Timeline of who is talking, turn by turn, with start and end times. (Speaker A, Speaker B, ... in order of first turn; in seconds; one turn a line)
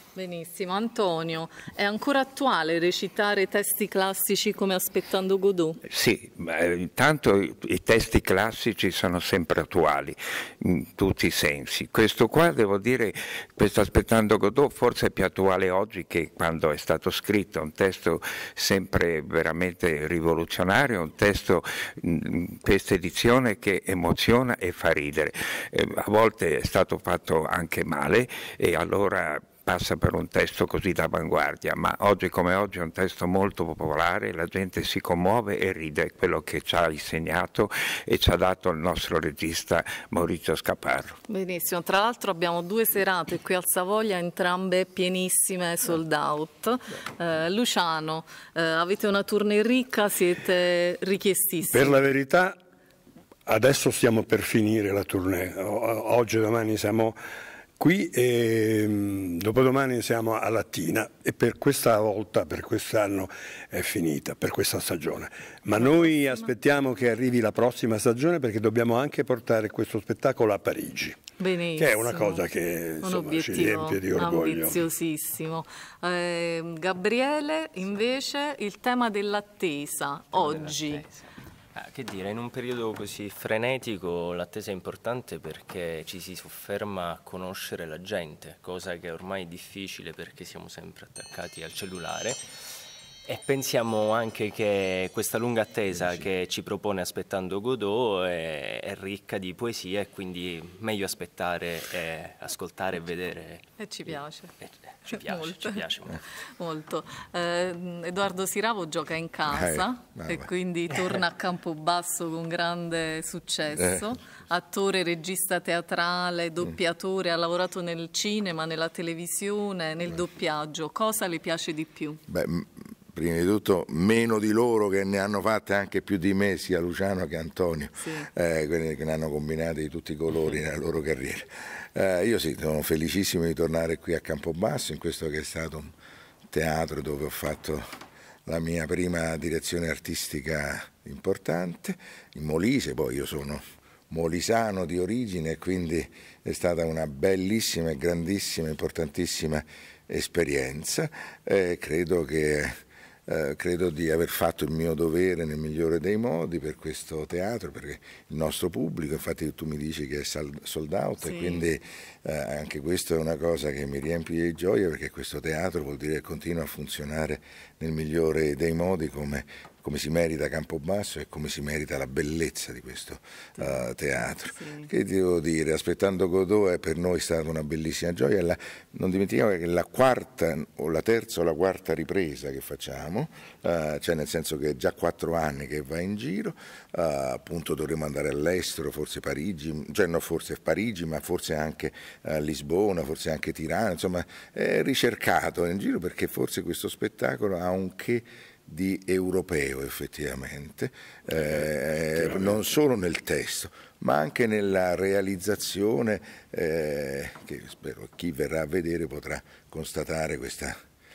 Speaker A: 0.1-5.8
Speaker B: 5.9-41.2
Speaker A: 41.3-52.0
Speaker C: 51.6-52.6
Speaker C: 53.5-57.2
Speaker C: 57.8-71.2
Speaker A: 65.8-66.4
Speaker A: 71.4-72.4
Speaker C: 71.8-74.8
Speaker A: 73.0-81.0
Speaker D: 80.3-92.4
Speaker D: 93.2-103.6
Speaker A: 103.8-104.5
Speaker D: 104.6-106.2
Speaker A: 105.1-105.8
Speaker A: 106.6-122.2
Speaker E: 109.5-110.5
Speaker E: 113.8-114.1
Speaker E: 122.3-135.9
Speaker A: 128.0-128.3
Speaker E: 136.5-137.9
Speaker E: 138.4-210.8
Speaker A: 161.2-161.6
Speaker A: 173.6-173.8
Speaker A: 174.5-174.9